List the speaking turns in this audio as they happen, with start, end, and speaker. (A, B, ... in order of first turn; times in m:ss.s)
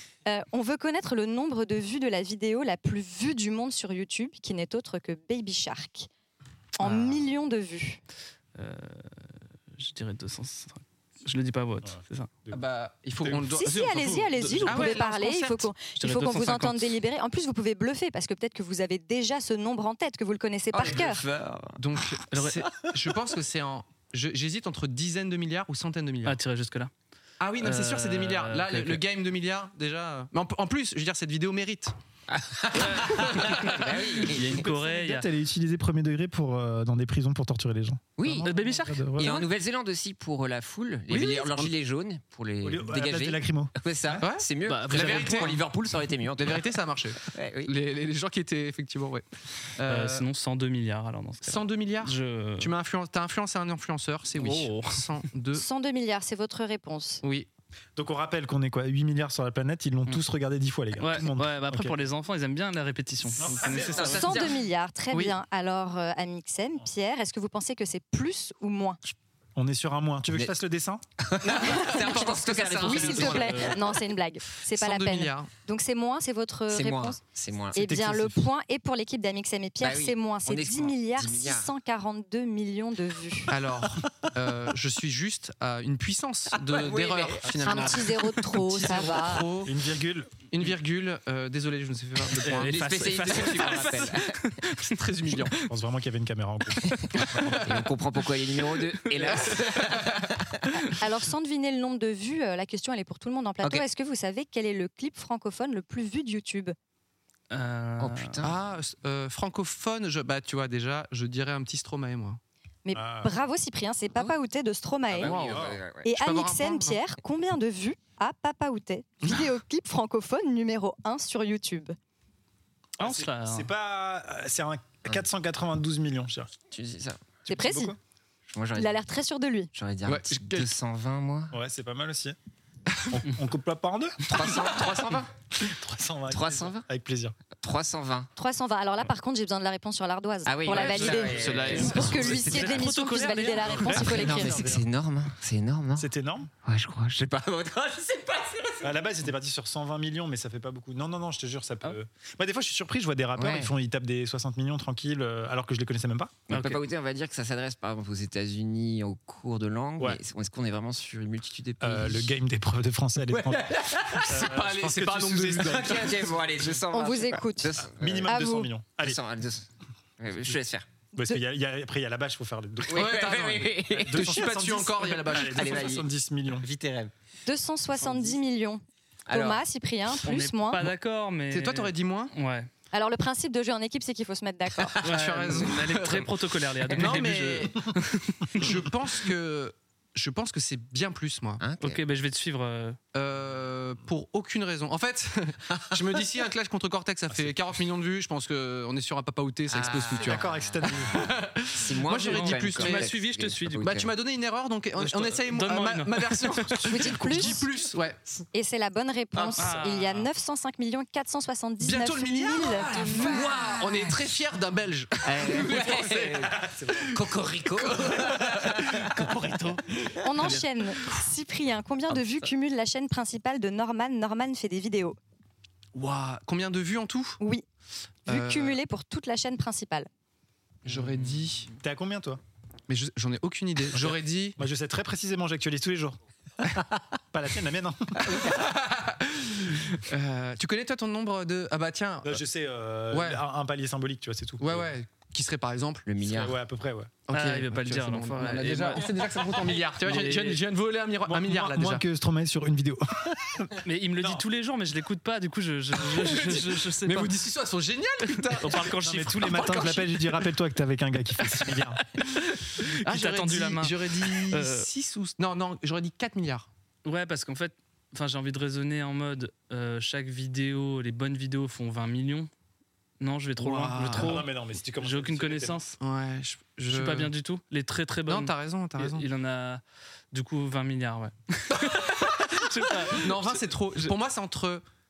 0:00.2-0:06.1 A
0:06.8-0:08.0 A
0:06.8-0:07.2 B
0:08.6-0:12.3 B
0:11.8-0:12.6 C
0:12.5-0:15.7 D
0:13.5-0:21.2 A
0:13.6-0:15.1 B
0:16.0-0:16.9 B
0:20.7-0:21.8 E
0:21.8-0:26.4 D
0:22.3-0:22.6 B
0:26.2-0:26.9 B
0:27.4-0:31.9 D
0:27.6-0:29.0 B
0:32.3-0:34.6 E
0:32.8-0:33.2 B
0:33.0-0:33.6 D
0:33.8-0:35.2 B
0:34.5-0:39.4 C
0:38.2-0:38.5 E
0:38.4-0:39.4 B
0:39.2-0:47.7 E
0:41.1-0:41.7 D
0:42.6-0:44.2 C
0:44.2-0:45.6 D
0:44.6-0:45.6 B
0:46.4-0:49.2 D
0:49.8-0:50.2 D
0:49.8-0:52.7 B
0:51.4-0:55.6 D
0:54.4-0:55.1 B
0:55.5-0:57.2 A
0:57.2-0:57.5 D
0:58.0-1:02.0 C
1:01.0-1:04.4 B
1:03.4-1:03.9 C
1:03.6-1:04.5 E
1:04.0-1:09.0 A
1:09.6-1:11.0 C
1:11.2-1:13.9 E
1:11.5-1:13.7 D
1:11.9-1:17.2 A
1:12.9-1:13.6 B
1:14.7-1:15.5 D
1:16.7-1:17.8 E
1:17.7-1:23.5 A
1:17.7-1:18.4 C
1:19.8-1:21.7 E
1:23.5-1:29.7 D
1:26.6-1:28.0 E
1:27.6-1:29.4 A
1:29.6-1:30.3 C
1:30.5-1:35.5 D
1:32.4-1:34.4 E
1:32.6-1:35.7 B
1:35.7-1:37.4 C
1:37.4-1:37.9 D
1:37.5-1:40.8 E
1:39.2-1:40.2 D
1:41.0-1:46.7 A
1:47.5-1:48.4 B
1:48.0-1:48.5 E
1:48.4-1:52.4 D
1:52.8-1:55.4 A
1:52.9-1:53.3 C
1:55.1-1:56.1 E
1:55.2-1:55.8 C
1:56.0-2:02.0 A
1:56.1-1:57.0 D
2:03.0-2:06.5 C
2:03.0-2:03.7 B
2:06.7-2:07.4 E
2:07.4-2:08.0 C
2:07.5-2:07.9 A
2:08.5-2:09.0 E
2:08.7-2:09.7 A
2:09.7-2:11.5 E
2:10.0-2:10.7 D
2:11.5-2:12.4 C
2:13.1-2:14.2 C
2:14.3-2:15.3 E
2:15.6-2:17.4 C
2:16.3-2:16.8 E
2:17.6-2:18.3 E
2:18.4-2:24.6 A
2:20.4-2:22.7 E
2:20.7-2:22.9 D
2:22.4-2:24.1 B
2:23.6-2:24.9 C
2:23.8-2:26.1 E
2:26.0-2:26.5 C
2:26.6-2:29.1 E
2:28.8-2:36.4 C
2:33.3-2:33.7 E
2:36.5-2:42.4 E
2:36.5-2:36.8 B
2:41.8-2:46.2 C
2:43.2-2:44.4 E
2:44.1-2:46.3 D
2:45.6-2:48.4 E
2:46.9-2:48.7 A
2:47.9-2:49.2 C
2:49.0-2:49.7 E
2:50.2-2:50.9 E
2:51.1-2:56.6 C
2:52.9-2:54.5 E
2:52.9-2:56.0 D
2:55.3-2:57.1 E
2:57.4-3:00.9 A
2:59.3-2:59.6 E
3:00.2-3:02.7 B
3:01.5-3:02.3 D
3:02.9-3:05.0 A
3:04.8-3:05.5 E
3:05.0-3:06.3 D
3:05.0-3:08.7 B
3:06.9-3:07.2 E
3:06.9-3:07.8 D
3:08.6-3:11.6 D
3:11.6-3:12.0 E
3:11.8-3:13.0 B
3:13.1-3:20.4 D
3:19.7-3:24.1 E
3:20.2-3:21.3 C
3:21.1-3:23.1 D
3:22.2-3:23.9 B
3:23.8-3:28.2 D
3:25.0-3:27.0 B
3:26.8-3:27.6 A
3:28.5-3:33.5 A
3:29.3-3:29.9 E
3:29.6-3:30.3 B
3:31.8-3:36.6 D
3:32.6-3:34.2 E
3:35.2-3:39.1 E
3:36.7-3:37.1 C
3:37.7-3:40.6 D
3:40.2-3:45.2 A
3:45.9-3:47.4 D
3:47.4-3:47.6 A
3:48.3-3:48.8 D
3:48.3-3:50.1 A
3:50.8-3:51.7 D
3:51.1-3:51.5 B
3:51.8-3:52.4 C
3:52.9-3:54.6 D
3:54.6-3:56.6 C
3:57.3-3:58.4 C
3:58.3-4:02.4 D
4:02.2-4:04.9 C
4:03.1-4:03.4 D
4:04.6-4:06.1 D
4:06.0-4:06.6 E
4:06.3-4:07.1 C
4:07.3-4:12.0 D
4:07.3-4:09.1 B
4:10.1-4:10.6 C
4:11.2-4:14.4 C
4:13.8-4:17.4 B
4:16.0-4:20.4 D
4:18.4-4:19.8 B
4:18.7-4:22.0 C
4:22.2-4:26.7 D
4:22.8-4:24.9 B
4:27.0-4:32.5 B
4:33.2-4:36.0 B
4:33.6-4:34.4 D
4:34.1-4:35.8 C
4:36.0-4:37.3 D
4:36.8-4:44.1 B
4:38.3-4:39.2 D
4:41.7-4:44.8 D